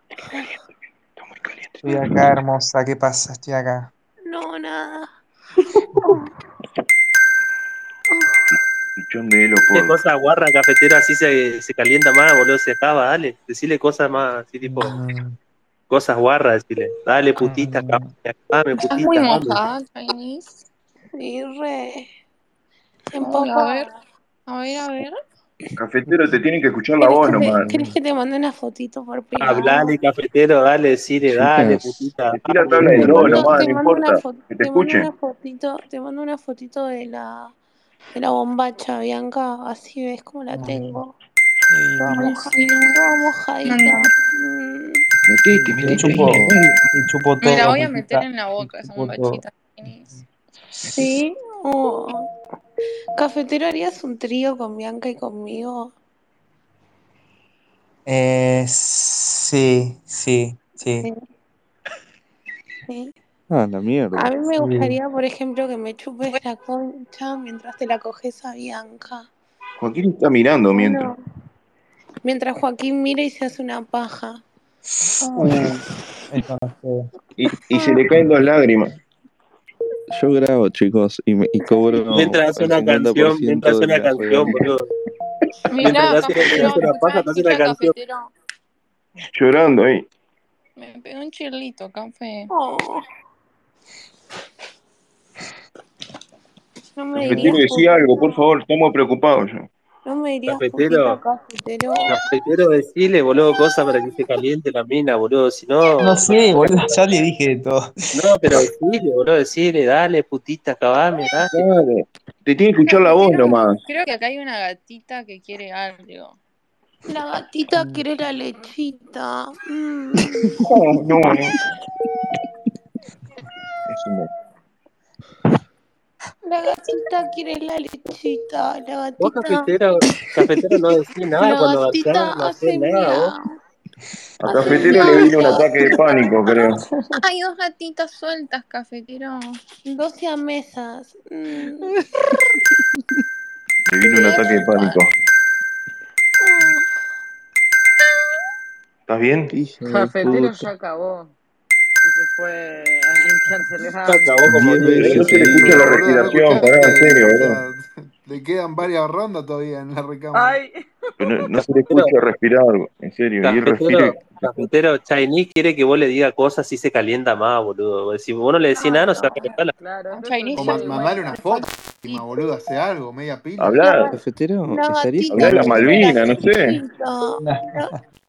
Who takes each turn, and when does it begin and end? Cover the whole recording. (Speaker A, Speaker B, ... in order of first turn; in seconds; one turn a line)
Speaker A: 1.2-2.3
Speaker B: 1.8-3.9
Speaker C: 4.2-5.1
Speaker C: 6.0-6.2
Speaker C: 8.1-8.5
Speaker A: 8.5-10.0
Speaker D: 9.7-15.0
Speaker B: 14.6-15.3
Speaker D: 15.9-19.6
Speaker B: 17.4-18.1
Speaker E: 18.8-20.6
Speaker C: 21.1-22.1
Speaker C: 23.1-23.9
Speaker E: 23.2-23.9
Speaker E: 24.5-25.2
Speaker A: 25.8-27.7
Speaker C: 27.0-29.9
Speaker F: 27.4-27.9
Speaker D: 29.4-33.5
Speaker F: 31.3-32.0
Speaker A: 32.4-35.1
Speaker F: 32.8-33.3
Speaker C: 33.2-37.5
Speaker C: 38.1-41.1
Speaker B: 40.5-41.0
Speaker B: 41.7-42.3
Speaker C: 42.0-45.0
Speaker E: 42.1-43.0
Speaker E: 43.6-44.1
Speaker A: 45.3-46.8
Speaker F: 45.5-46.5
Speaker B: 45.8-49.4
Speaker E: 47.4-50.1
Speaker C: 50.9-52.3
Speaker C: 53.2-55.9
Speaker B: 58.0-61.1
Speaker C: 62.9-63.1
Speaker F: 63.5-64.4
Speaker C: 64.1-69.3
Speaker B: 64.6-65.0
Speaker A: 69.8-71.1
Speaker C: 70.7-71.2
Speaker C: 72.2-74.4
Speaker E: 75.3-75.8
Speaker B: 76.3-77.1
Speaker A: 77.4-78.9
Speaker F: 80.1-84.7
Speaker D: 82.1-84.8
Speaker E: 85.7-88.3
Speaker D: 85.8-88.0
Speaker A: 89.3-90.1
Speaker E: 90.8-92.5
Speaker C: 92.5-93.0
Speaker C: 97.0-98.4
Speaker A: 97.2-99.7
Speaker C: 100.0-102.2
Speaker D: 100.5-101.2
Speaker D: 102.1-107.0
Speaker B: 106.0-107.9
Speaker D: 108.1-111.6
Speaker A: 111.5-113.8
Speaker E: 112.8-116.4
Speaker C: 117.1-120.6
Speaker A: 120.6-121.6
Speaker A: 123.9-124.3
Speaker C: 126.5-129.7
Speaker D: 129.2-133.3
Speaker C: 131.4-133.6
Speaker A: 134.4-136.8
Speaker C: 134.4-136.8
Speaker E: 134.7-135.1
Speaker E: 137.2-139.6
Speaker C: 139.8-142.0
Speaker A: 143.9-145.1
Speaker E: 144.1-145.0
Speaker C: 146.4-146.9
Speaker A: 149.1-149.5
Speaker F: 149.5-150.7
Speaker G: 149.8-151.3
Speaker G: 152.0-154.5
Speaker D: 154.0-155.3
Speaker F: 154.4-155.8
Speaker A: 154.9-157.6
Speaker H: 155.5-160.6
Speaker G: 160.3-161.5
Speaker A: 161.2-164.7
Speaker D: 161.9-162.1
Speaker D: 163.4-169.7
Speaker E: 168.8-169.5
Speaker G: 169.8-171.4
Speaker E: 170.2-172.2
Speaker H: 170.5-173.8
Speaker A: 173.6-174.1
Speaker C: 173.8-174.1
Speaker F: 174.1-176.1
Speaker C: 174.7-177.9
Speaker A: 175.3-176.8
Speaker B: 177.4-177.7